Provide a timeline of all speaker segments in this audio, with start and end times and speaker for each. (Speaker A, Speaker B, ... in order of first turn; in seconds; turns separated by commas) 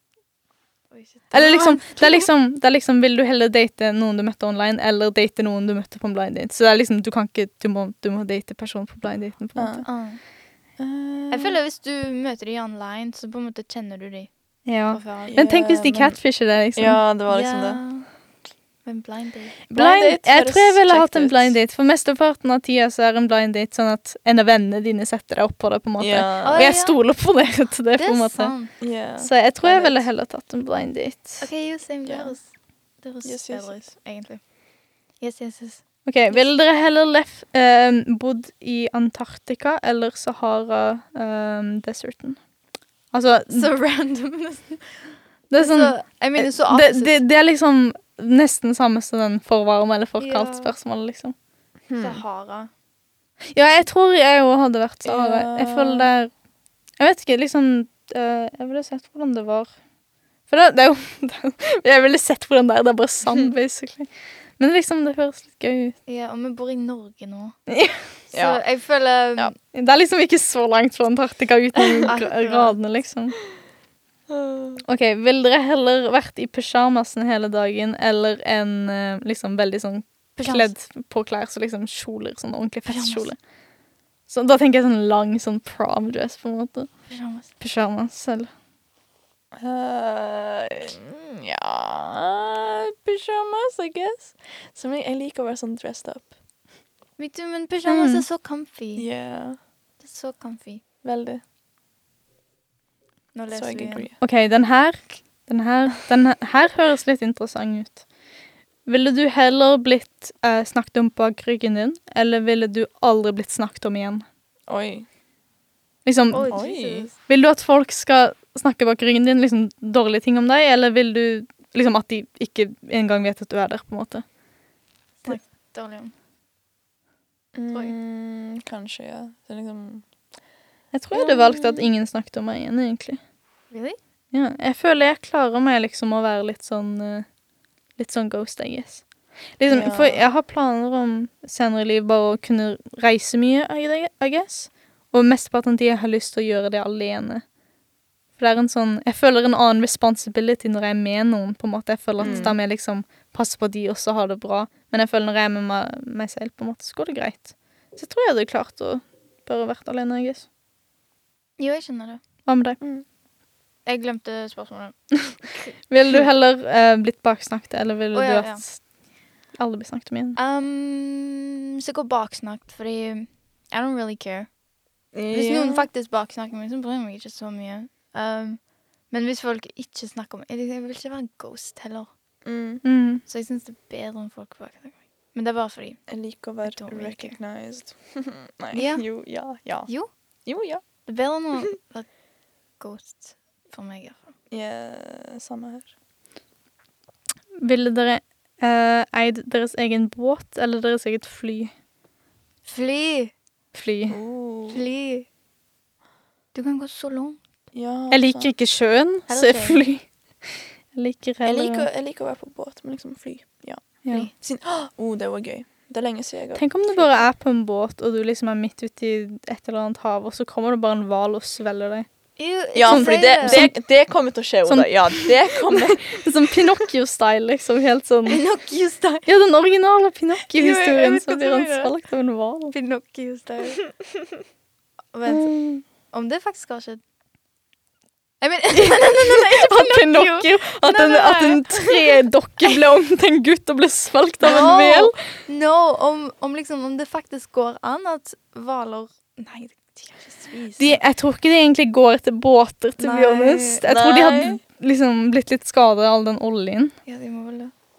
Speaker A: 0.9-2.2, Speaker B: 1.3-9.8, Speaker C: 9.6-9.8, Speaker A: 9.8-10.2, Speaker C: 10.8-11.6, Speaker A: 11.3-14.3, Speaker B: 14.7-17.0, Speaker A: 14.9-15.4, Speaker C: 15.3-16.2, Speaker C: 16.7-17.8, Speaker A: 17.3-18.1, Speaker A: 18.8-19.6, Speaker B: 19.7-31.4, Speaker C: 19.7-21.6, Speaker C: 26.0-26.6, Speaker A: 26.4-27.0, Speaker A: 27.9-28.7, Speaker C: 28.8-30.0, Speaker A: 31.4-32.5, Speaker C: 32.0-32.4, Speaker A: 33.0-34.4, Speaker C: 33.2-33.8, Speaker A: 35.2-36.5, Speaker B: 36.0-42.4, Speaker B: 43.1-43.7, Speaker A: 43.5-44.8, Speaker B: 45.5-51.3, Speaker A: 45.5-47.2, Speaker A: 50.2-50.7, Speaker C: 51.9-52.2, Speaker A: 52.0-52.7, Speaker B: 53.5-56.3, Speaker C: 55.0-56.1, Speaker B: 57.0-59.7, Speaker B: 60.5-66.0, Speaker C: 63.2-63.5, Speaker A: 66.1-67.5, Speaker B: 67.7-68.1, Speaker A: 68.3-69.5, Speaker C: 68.3-68.6, Speaker B: 69.7-73.3, Speaker A: 72.0-72.8, Speaker C: 74.3-74.8, Speaker B: 74.8-83.4, Speaker A: 80.4-80.7, Speaker A: 82.9-83.3, Speaker B: 84.3-86.9, Speaker A: 87.1-87.5, Speaker B: 87.6-88.5, Speaker C: 89.5-96.3, Speaker A: 97.2-99.1, Speaker B: 97.8-98.2, Speaker C: 99.0-99.6, Speaker A: 100.0-100.8, Speaker C: 101.0-101.4, Speaker A: 103.3-104.1, Speaker C: 103.5-104.1, Speaker B: 104.2-108.0, Speaker B: 108.8-114.2, Speaker C: 114.7-115.0, Speaker B: 116.0-116.6, Speaker A: 116.3-117.2, Speaker C: 116.5-117.1, Speaker B: 117.3-124.2, Speaker A: 125.2-126.1, Speaker C: 127.5-130.0, Speaker B: 130.9-133.2, Speaker C: 131.1-131.8, Speaker A: 133.7-134.0, Speaker B: 134.3-137.3, Speaker B: 138.0-139.0, Speaker B: 139.6-147.4, Speaker C: 139.7-140.2, Speaker B: 148.4-160.4, Speaker C: 152.2-152.6, Speaker A: 161.6-162.2, Speaker B: 162.4-162.8, Speaker A: 163.8-165.0, Speaker B: 165.9-168.8, Speaker A: 168.1-168.6, Speaker B: 169.5-170.4, Speaker A: 170.3-174.5, Speaker C: 175.1-175.9, Speaker A: 175.3-182.1, Speaker C: 182.4-182.8, Speaker B: 182.8-183.2, Speaker A: 183.2-186.0, Speaker C: 186.1-189.9, Speaker A: 186.6-187.4, Speaker A: 188.7-189.1, Speaker C: 190.4-190.8, Speaker A: 191.1-192.1, Speaker A: 192.8-194.3, Speaker C: 194.5-195.9, Speaker B: 197.6-201.7, Speaker A: 202.6-203.3, Speaker B: 203.7-204.2, Speaker C: 204.1-204.8, Speaker A: 204.7-205.3, Speaker A: 206.5-207.4, Speaker C: 207.7-208.5, Speaker B: 208.1-211.9, Speaker A: 209.3-209.8, Speaker C: 211.4-217.3, Speaker B: 216.6-222.1, Speaker A: 222.4-223.6, Speaker C: 222.7-226.2, Speaker B: 222.9-223.8, Speaker B: 224.6-228.4, Speaker A: 228.3-229.3, Speaker B: 229.2-232.7, Speaker A: 230.4-231.9, Speaker A: 232.7-233.8, Speaker A: 235.1-235.5, Speaker B: 235.3-235.8, Speaker A: 236.1-237.0, Speaker A: 238.4-242.8, Speaker B: 238.7-245.2, Speaker A: 244.4-251.0, Speaker B: 250.8-256.9, Speaker A: 253.0-253.8, Speaker C: 253.8-254.6, Speaker A: 257.1-257.7